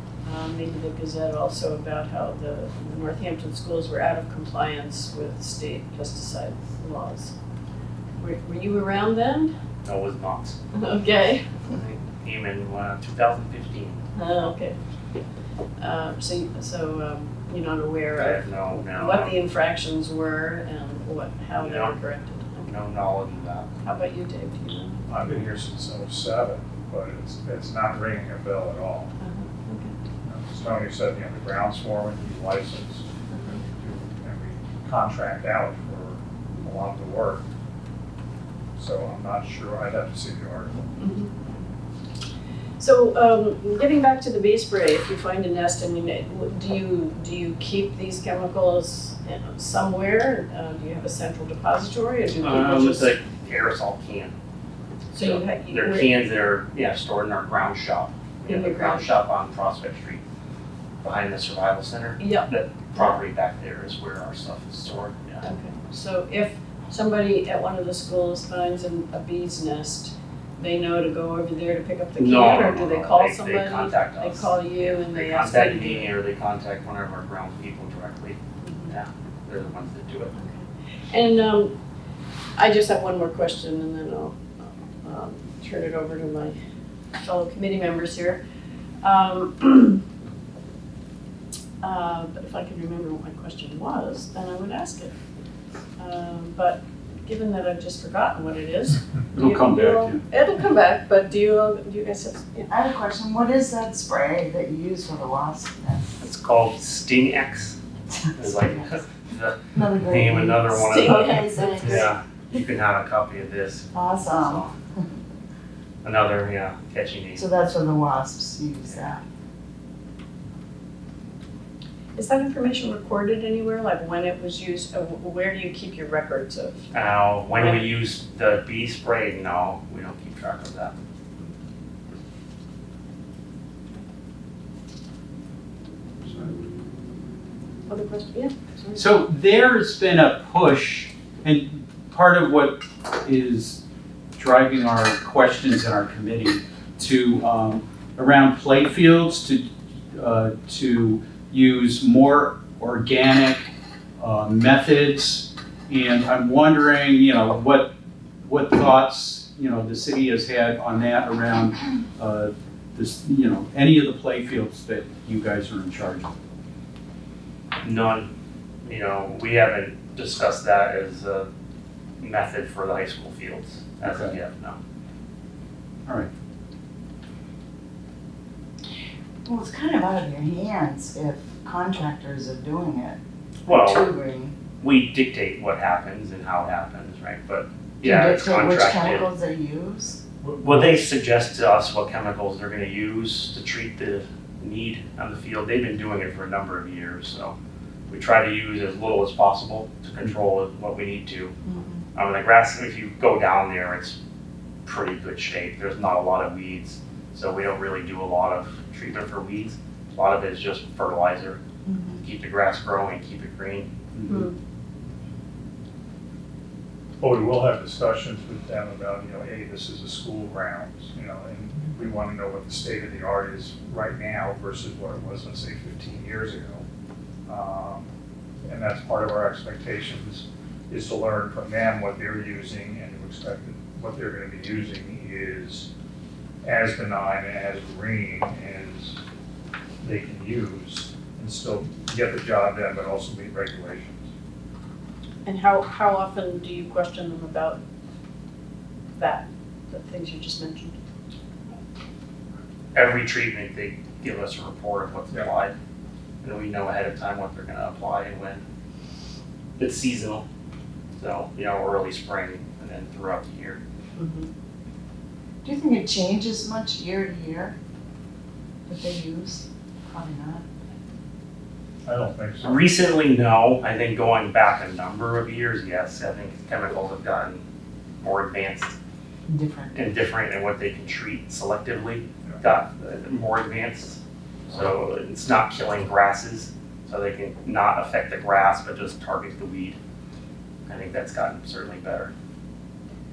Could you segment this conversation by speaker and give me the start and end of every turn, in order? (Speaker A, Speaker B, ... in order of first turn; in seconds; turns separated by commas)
Speaker A: 0.2-7.3, Speaker A: 8.2-9.5, Speaker B: 9.8-10.6, Speaker A: 10.7-11.6, Speaker B: 11.7-14.0, Speaker A: 14.1-14.8, Speaker A: 15.8-22.7, Speaker B: 18.2-19.3, Speaker B: 21.6-21.9, Speaker B: 22.6-23.7, Speaker A: 23.8-25.1, Speaker C: 25.1-29.1, Speaker A: 29.2-29.9, Speaker C: 30.2-37.4, Speaker A: 33.3-33.6, Speaker C: 38.8-40.8, Speaker A: 41.0-41.5, Speaker A: 42.8-53.1, Speaker B: 52.4-54.3, Speaker A: 55.1-56.1, Speaker B: 55.1-60.2, Speaker A: 58.5-59.1, Speaker B: 61.0-65.5, Speaker A: 62.2-63.1, Speaker A: 65.4-76.1, Speaker B: 72.2-78.4, Speaker A: 78.6-78.9, Speaker B: 78.9-80.3, Speaker A: 80.3-81.7, Speaker A: 82.6-86.6, Speaker A: 87.2-88.4, Speaker A: 89.0-90.0, Speaker A: 91.8-95.1, Speaker A: 96.0-102.7, Speaker D: 99.3-100.2, Speaker E: 102.7-106.1, Speaker B: 106.2-107.8, Speaker B: 108.4-114.7, Speaker E: 109.7-112.1, Speaker A: 110.8-112.1, Speaker E: 113.9-114.7, Speaker B: 116.0-117.5, Speaker E: 117.3-119.2, Speaker B: 118.9-119.2, Speaker A: 122.1-126.9, Speaker B: 126.9-130.9, Speaker A: 127.5-127.9, Speaker A: 137.9-139.2, Speaker D: 138.9-143.8, Speaker D: 144.3-166.3, Speaker B: 167.8-168.3, Speaker B: 168.8-171.5, Speaker B: 172.2-174.8, Speaker D: 174.0-174.3, Speaker E: 179.4-184.5, Speaker B: 183.6-184.1, Speaker B: 184.8-189.3, Speaker E: 188.0-190.2, Speaker B: 190.4-197.5, Speaker B: 198.1-201.5, Speaker E: 201.6-202.0, Speaker B: 202.1-204.2, Speaker B: 204.8-211.6, Speaker E: 211.8-212.2, Speaker B: 212.2-213.9, Speaker D: 214.1-214.5, Speaker A: 214.3-214.5, Speaker C: 217.2-226.8, Speaker C: 227.5-228.1, Speaker C: 228.6-235.9, Speaker C: 236.6-239.2, Speaker C: 240.0-244.2, Speaker A: 245.4-247.8, Speaker A: 249.1-250.9, Speaker B: 252.9-255.7, Speaker B: 256.4-258.6, Speaker B: 259.8-260.4, Speaker B: 261.1-263.8, Speaker A: 264.2-264.5, Speaker E: 265.6-267.7, Speaker E: 268.9-270.6, Speaker C: 272.0-272.8, Speaker B: 272.6-277.6, Speaker B: 278.2-278.9, Speaker E: 279.5-280.1, Speaker B: 279.9-290.0, Speaker B: 290.9-292.3